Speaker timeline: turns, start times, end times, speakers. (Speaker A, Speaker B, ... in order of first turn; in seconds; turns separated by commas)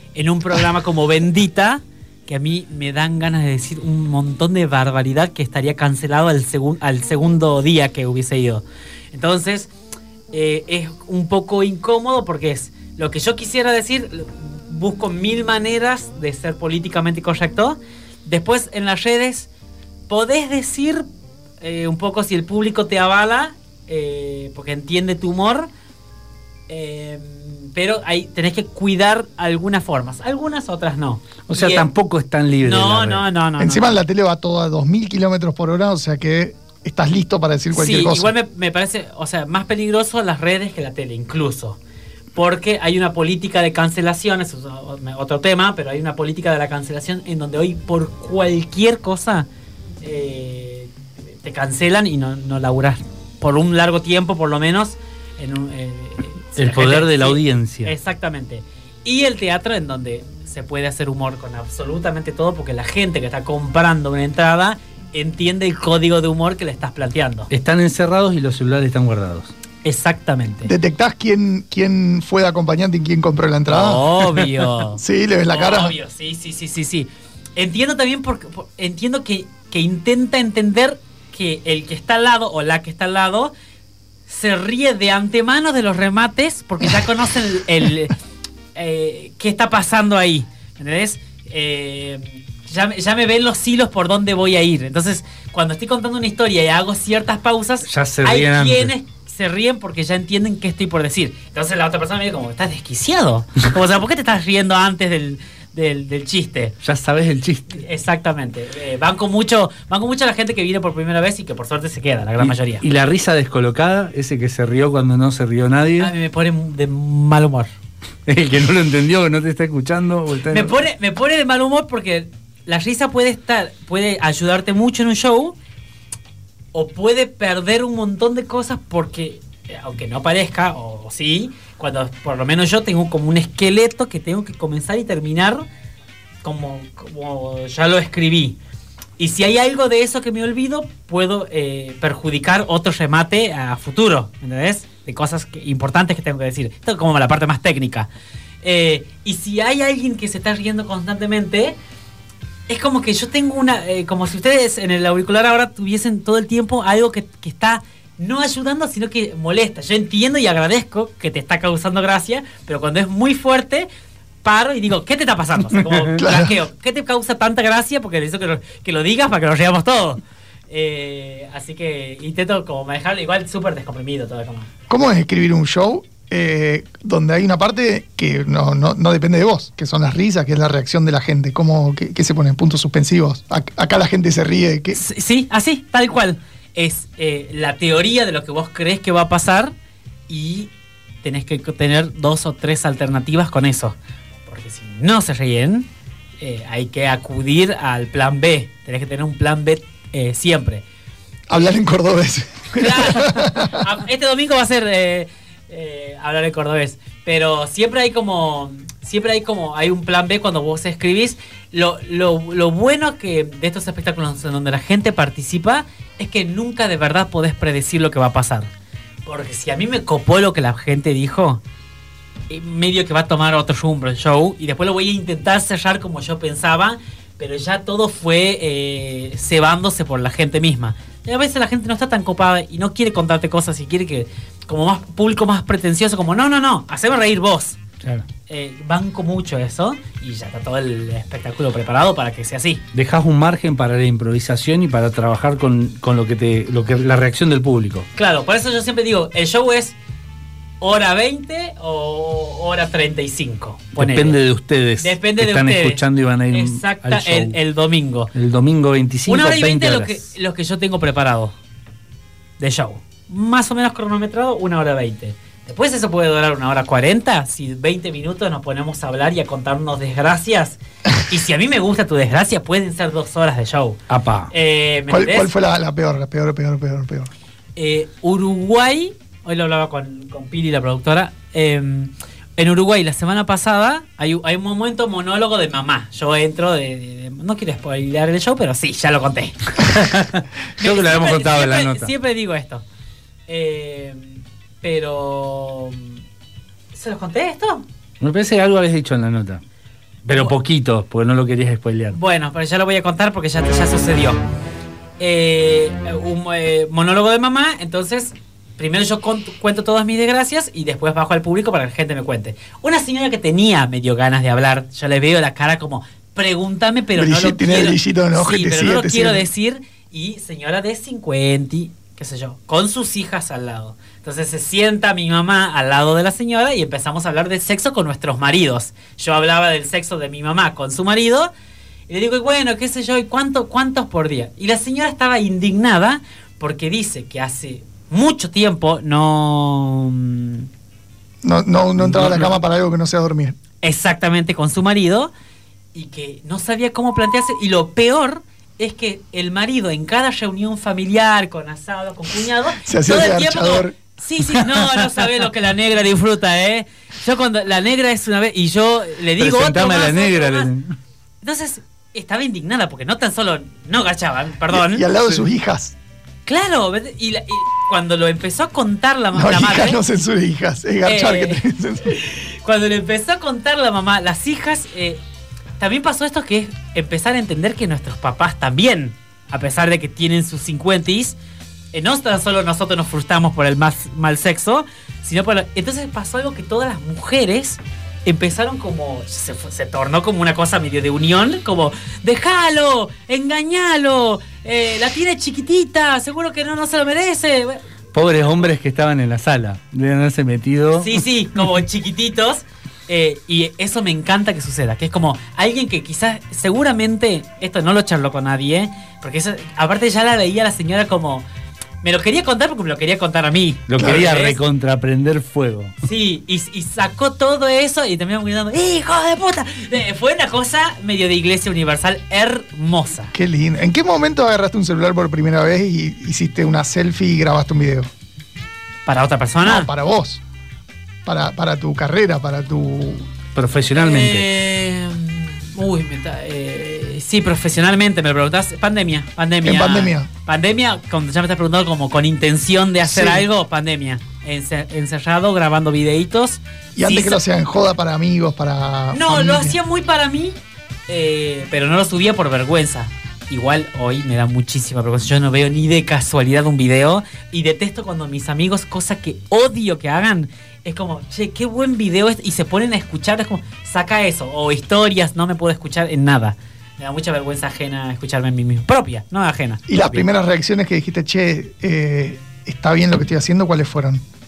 Speaker A: 0.1-9.7, Speaker A: 10.3-19.5, Speaker A: 20.1-21.1, Speaker A: 21.6-25.7, Speaker A: 26.7-31.9, Speaker B: 31.5-33.3, Speaker A: 32.6-34.0, Speaker C: 33.6-38.3, Speaker A: 37.7-41.8, Speaker A: 42.4-49.5, Speaker A: 50.0-67.5, Speaker B: 56.6-58.0, Speaker B: 67.5-69.5, Speaker A: 69.8-70.7, Speaker C: 70.7-74.2, Speaker A: 73.7-83.5, Speaker C: 75.0-76.0, Speaker A: 84.3-88.2, Speaker A: 88.8-106.8, Speaker B: 97.9-98.9, Speaker B: 106.8-107.8, Speaker A: 107.7-112.8, Speaker B: 112.4-116.1, Speaker A: 116.0-117.7, Speaker B: 118.3-120.8, Speaker A: 120.5-125.6, Speaker A: 126.7-135.7, Speaker A: 136.4-138.6, Speaker A: 139.2-148.1, Speaker A: 148.6-151.8, Speaker A: 152.7-163.9, Speaker A: 164.4-174.7, Speaker C: 166.2-166.6, Speaker C: 174.9-185.0, Speaker A: 184.9-189.7, Speaker A: 190.3-190.7, Speaker A: 191.2-195.9, Speaker A: 196.4-200.8, Speaker C: 201.5-203.8, Speaker A: 202.7-218.7, Speaker A: 219.2-221.6, Speaker A: 222.5-237.8, Speaker A: 238.5-242.8, Speaker B: 242.9-248.1, Speaker A: 248.2-249.9, Speaker A: 250.8-254.4, Speaker B: 253.9-257.6, Speaker A: 255.0-258.3, Speaker B: 258.3-260.2, Speaker A: 259.3-261.5, Speaker A: 262.6-274.0, Speaker B: 274.1-274.5, Speaker A: 274.5-275.5, Speaker C: 275.1-277.3, Speaker A: 277.8-290.2, Speaker B: 289.8-292.1, Speaker A: 290.8-292.8, Speaker A: 293.5-296.1, Speaker A: 296.9-297.9, Speaker B: 298.2-299.6, Speaker B: 300.2-302.2, Speaker A: 300.3-300.6, Speaker A: 302.1-304.4, Speaker A: 305.2-331.5, Speaker C: 317.1-319.5, Speaker A: 332.1-340.7, Speaker C: 341.4-343.6, Speaker A: 342.0-342.5, Speaker A: 343.8-345.3, Speaker A: 345.9-360.7, Speaker C: 352.8-354.0, Speaker B: 359.4-360.9, Speaker A: 361.4-365.1, Speaker C: 364.7-365.9, Speaker A: 366.5-370.0, Speaker C: 369.3-372.2, Speaker A: 371.1-375.2, Speaker A: 375.8-381.4, Speaker A: 381.9-397.8, Speaker B: 398.1-401.2, Speaker A: 401.0-411.5, Speaker A: 412.0-414.6, Speaker B: 413.9-415.9, Speaker A: 416.0-423.3, Speaker C: 423.3-428.1, Speaker A: 429.1-429.9, Speaker C: 429.6-430.4, Speaker C: 431.2-433.3, Speaker B: 433.6-434.5, Speaker A: 433.9-447.4, Speaker C: 439.6-440.3, Speaker C: 443.0-443.5, Speaker C: 446.9-449.8, Speaker A: 449.1-450.6, Speaker A: 451.1-470.3, Speaker C: 469.9-474.2